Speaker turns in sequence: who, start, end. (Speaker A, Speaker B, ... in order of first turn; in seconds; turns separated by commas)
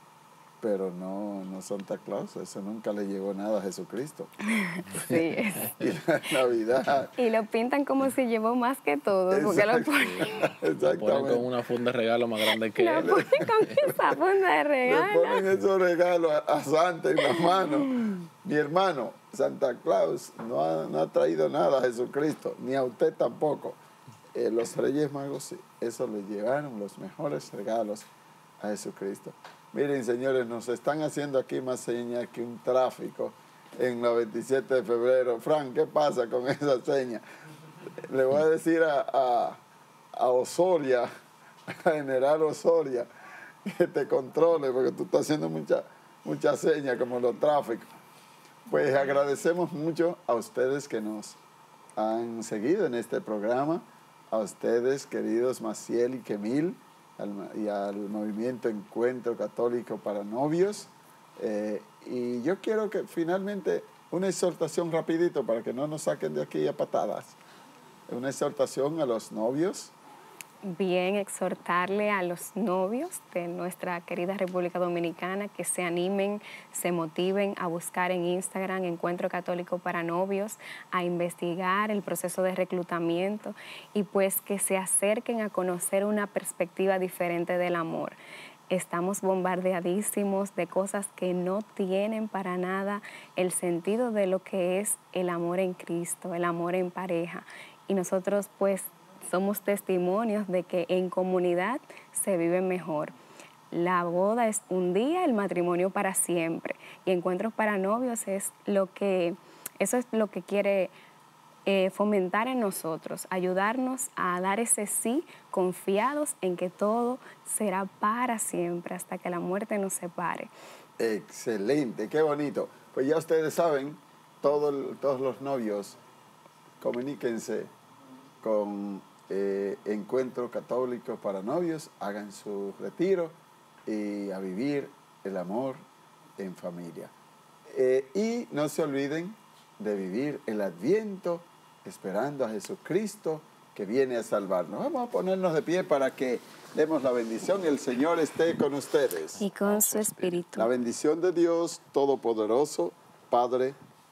Speaker A: 0.6-4.3, Speaker B: 4.6-5.8, Speaker A: 5.8-7.1, Speaker B: 7.2-10.3, Speaker A: 9.3-11.5, Speaker C: 10.0-13.5, Speaker B: 12.8-15.5, Speaker A: 13.0-14.2, Speaker A: 14.8-23.8, Speaker B: 17.2-18.2, Speaker A: 24.3-28.1, Speaker A: 28.6-37.2, Speaker A: 38.0-39.6, Speaker A: 40.1-41.1, Speaker A: 41.7-43.1, Speaker A: 43.6-47.9, Speaker A: 48.7-51.4, Speaker A: 52.0-67.4, Speaker A: 68.1-69.9, Speaker B: 70.6-88.2, Speaker B: 88.7-103.1, Speaker B: 103.7-110.9, Speaker B: 111.7-120.5, Speaker A: 121.0-126.0, Speaker A: 126.8-127.7, Speaker A: 128.4-133.3, Speaker A: 133.8-135.8, Speaker A: 136.4-137.1, Speaker A: 137.7-149.4, Speaker B: 149.4-150.7, Speaker C: 149.6-150.4, Speaker A: 150.5-153.8